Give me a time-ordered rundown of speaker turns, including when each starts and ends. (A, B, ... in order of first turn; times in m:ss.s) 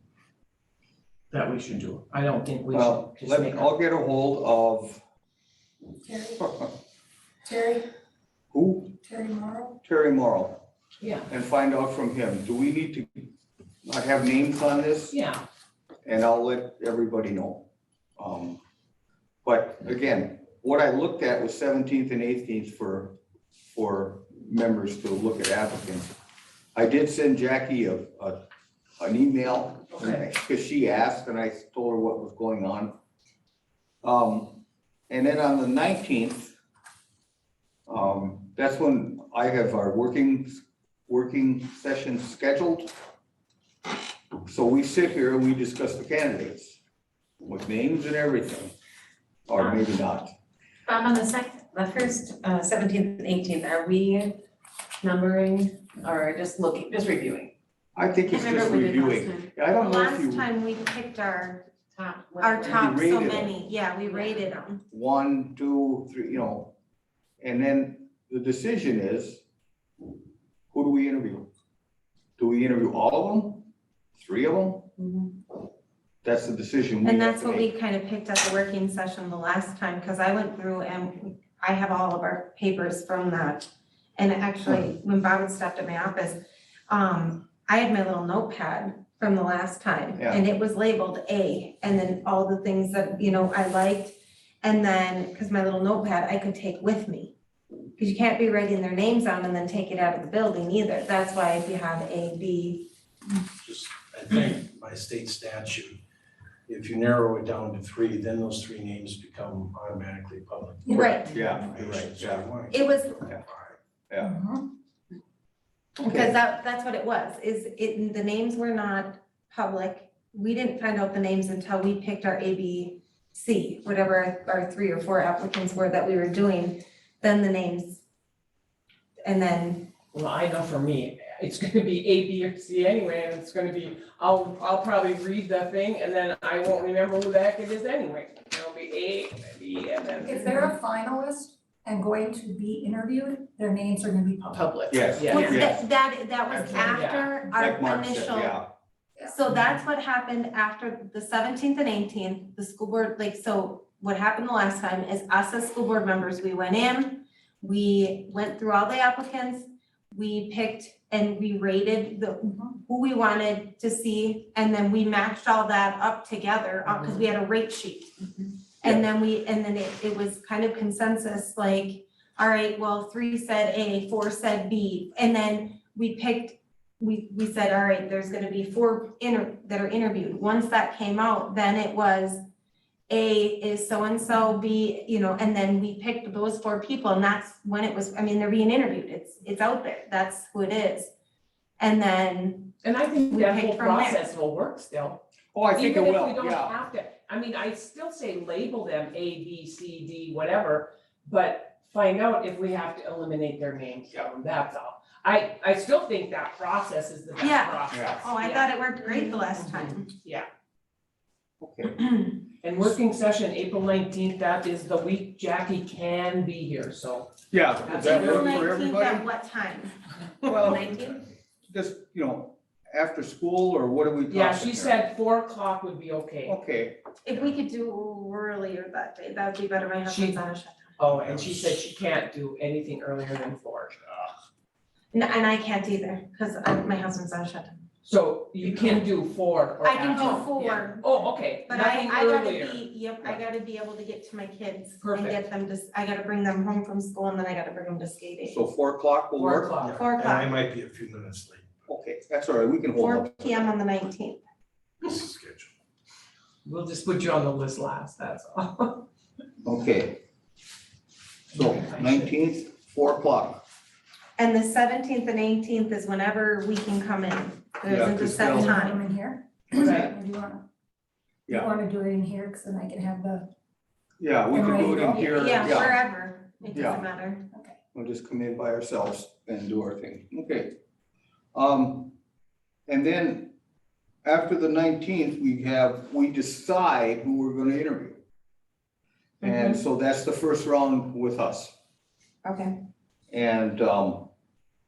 0:01.3-0:03.7 A
0:02.7-0:05.0 B
0:06.0-0:06.4 C
0:06.4-0:06.7 B
0:07.4-0:07.8 C
0:08.5-0:08.9 B
0:09.0-0:09.8 C
0:09.8-0:10.6 B
0:11.0-0:11.3 A
0:11.3-0:13.3 B
0:13.8-0:15.2 B
0:15.1-0:15.4 A
0:16.0-0:17.6 B
0:18.2-0:18.6 B
0:19.4-0:23.2 B
0:23.7-0:26.1 B
0:26.7-0:28.4 B
0:29.0-0:32.9 B
0:29.9-0:30.2 A
0:34.0-0:36.5 B
0:37.9-0:42.9 B
0:44.4-0:46.8 B
0:47.4-0:48.7 B
0:49.5-0:50.3 B
0:50.9-0:54.4 D
0:55.0-0:57.5 D
0:58.0-1:00.5 B
0:58.3-0:59.4 D
0:59.7-1:01.6 E
1:01.9-1:02.8 D
1:02.4-1:04.8 E
1:02.7-1:03.5 B
1:04.0-1:04.4 D
1:04.9-1:06.7 B
1:07.4-1:09.4 B
1:10.7-1:11.5 B
1:12.4-1:15.1 B
1:16.2-1:17.7 B
1:17.0-1:37.3 E
1:38.0-1:42.8 E
1:43.6-1:46.0 F
1:46.7-1:53.8 F
1:50.9-1:51.7 C
1:50.9-1:51.3 E
1:51.2-1:52.5 B
1:52.7-1:53.2 E
1:54.2-1:54.6 C
1:56.0-2:08.0 E
1:56.0-1:56.3 B
2:09.2-2:09.9 E
2:10.1-2:20.7 A
2:20.2-2:24.7 C
2:24.5-2:25.6 A
2:24.9-2:25.8 B
2:25.3-2:28.6 E
2:26.5-2:28.6 B
2:26.7-2:27.3 A
2:29.2-3:02.4 E
3:03.1-3:11.1 E
3:11.8-3:12.8 E
3:12.8-3:15.2 A
3:13.3-3:14.2 E
3:15.5-3:16.8 B
3:15.7-3:30.5 A
3:27.4-3:30.1 E
3:27.9-3:28.2 B
3:31.6-3:32.0 B
3:32.0-3:32.3 E
3:32.6-3:37.3 A
3:37.5-3:39.2 B
3:37.8-3:38.7 A
3:37.9-3:39.9 E
3:40.4-3:41.1 B
3:40.5-3:41.2 F
3:41.7-3:45.0 B
3:44.3-3:46.6 A
3:46.4-3:47.0 B
3:47.2-3:50.9 E
3:50.1-3:50.4 A
3:51.0-3:54.0 A
3:51.1-3:51.8 F
3:55.1-3:57.8 E
3:58.0-4:02.8 A
3:59.8-4:08.6 E
4:05.0-4:05.4 A
4:08.4-4:09.7 B
4:09.4-4:10.0 A
4:09.8-4:11.9 F
4:09.9-4:10.6 E
4:11.9-4:13.7 B
4:13.0-4:14.4 E
4:15.0-4:15.7 F
4:16.6-4:19.0 A
4:19.6-4:20.2 B
4:21.5-4:22.3 A
4:21.5-4:23.6 B
4:24.4-4:29.0 E
4:27.8-4:28.8 B
4:28.2-4:30.6 C
4:29.7-4:30.1 A
4:31.5-4:33.5 C
4:34.2-4:36.0 B
4:34.5-4:35.8 C
4:35.3-4:37.4 E
4:36.7-4:37.0 B
4:37.9-4:40.7 B
4:41.5-4:42.1 B
4:42.9-4:43.5 B
4:44.2-4:48.2 B
4:49.4-4:49.8 E
4:49.4-4:51.7 B
4:52.4-4:52.7 E
4:53.3-4:54.3 B